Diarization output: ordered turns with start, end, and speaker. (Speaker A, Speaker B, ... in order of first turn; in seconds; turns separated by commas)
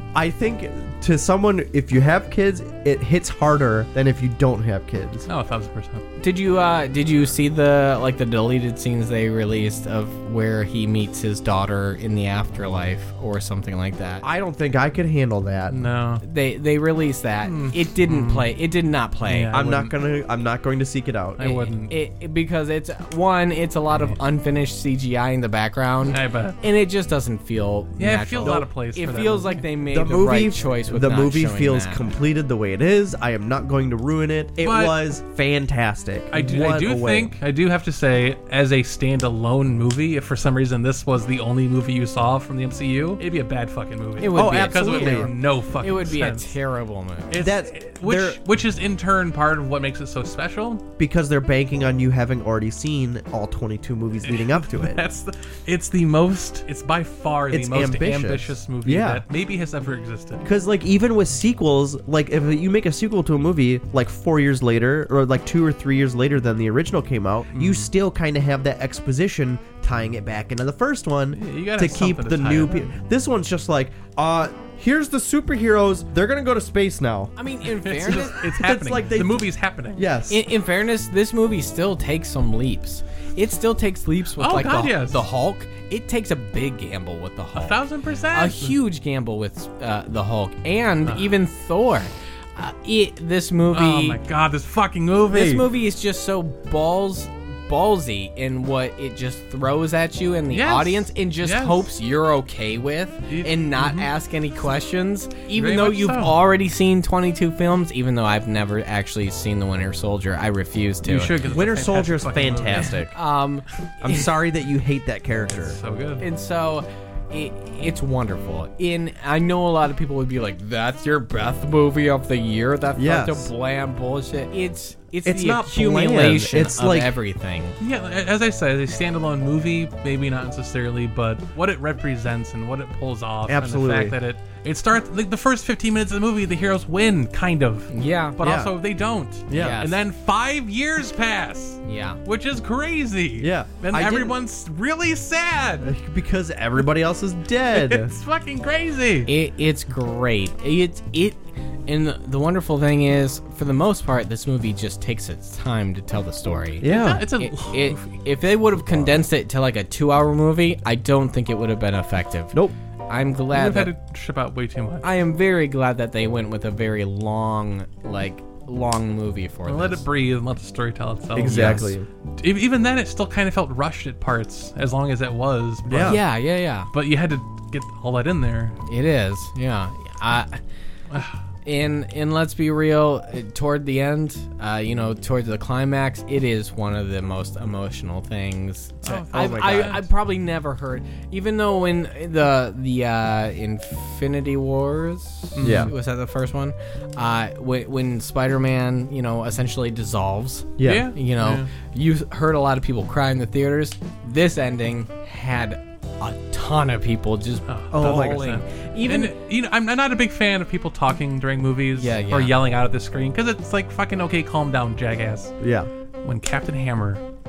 Speaker A: 0.1-5.3, Speaker B: 5.3-6.0, Speaker C: 6.2-14.2, Speaker A: 14.2-15.8, Speaker B: 15.7-16.2, Speaker C: 16.2-19.5, Speaker B: 17.4-18.5, Speaker B: 19.2-19.9, Speaker A: 19.5-21.7, Speaker B: 21.4-21.9, Speaker C: 21.9-32.1, Speaker B: 23.9-24.2, Speaker B: 26.1-26.6, Speaker B: 28.0-29.6, Speaker A: 29.9-37.4, Speaker B: 34.6-35.0, Speaker B: 36.3-46.6, Speaker C: 44.2-47.4, Speaker A: 44.3-45.3, Speaker B: 47.3-50.8, Speaker A: 47.3-48.4, Speaker A: 51.0-55.0, Speaker B: 54.2-60.5, Speaker A: 57.5-59.2, Speaker A: 60.4-77.3, Speaker B: 67.5-67.9, Speaker B: 71.3-72.9, Speaker C: 77.4-78.4, Speaker B: 77.8-80.1, Speaker A: 78.4-80.4, Speaker C: 80.3-94.2, Speaker B: 84.4-85.2, Speaker B: 87.5-88.8, Speaker B: 91.1-91.3, Speaker B: 93.7-95.7, Speaker C: 95.3-111.3, Speaker B: 100.5-101.9, Speaker B: 103.3-104.1, Speaker B: 105.5-106.4, Speaker B: 111.0-113.0, Speaker A: 111.4-113.2, Speaker C: 112.7-114.3, Speaker A: 114.0-115.8, Speaker B: 115.5-116.2, Speaker C: 116.2-127.8, Speaker A: 123.0-123.5, Speaker A: 125.2-127.2, Speaker B: 127.8-145.9, Speaker A: 133.5-134.2, Speaker C: 137.9-138.4, Speaker A: 138.4-138.7, Speaker A: 139.5-139.8, Speaker C: 139.5-140.0, Speaker C: 141.8-142.2, Speaker A: 143.4-144.3, Speaker A: 145.8-148.2, Speaker B: 147.7-149.3, Speaker C: 149.3-162.6, Speaker A: 156.8-157.3, Speaker B: 156.8-158.1, Speaker C: 163.1-163.9, Speaker B: 163.5-165.0, Speaker C: 165.0-170.1, Speaker B: 169.7-171.8, Speaker A: 171.3-172.1, Speaker C: 171.5-171.9, Speaker B: 172.4-176.3, Speaker A: 175.9-176.2, Speaker C: 176.0-176.9, Speaker B: 176.9-178.8, Speaker C: 178.9-180.6, Speaker B: 181.1-181.4, Speaker C: 181.7-209.3, Speaker B: 189.0-190.1, Speaker A: 189.1-190.1, Speaker B: 195.6-195.9, Speaker A: 195.6-195.9, Speaker A: 200.8-201.1, Speaker B: 200.8-201.7, Speaker B: 207.7-215.5, Speaker A: 207.9-208.5, Speaker C: 211.9-212.6, Speaker A: 215.6-215.9, Speaker B: 216.2-217.2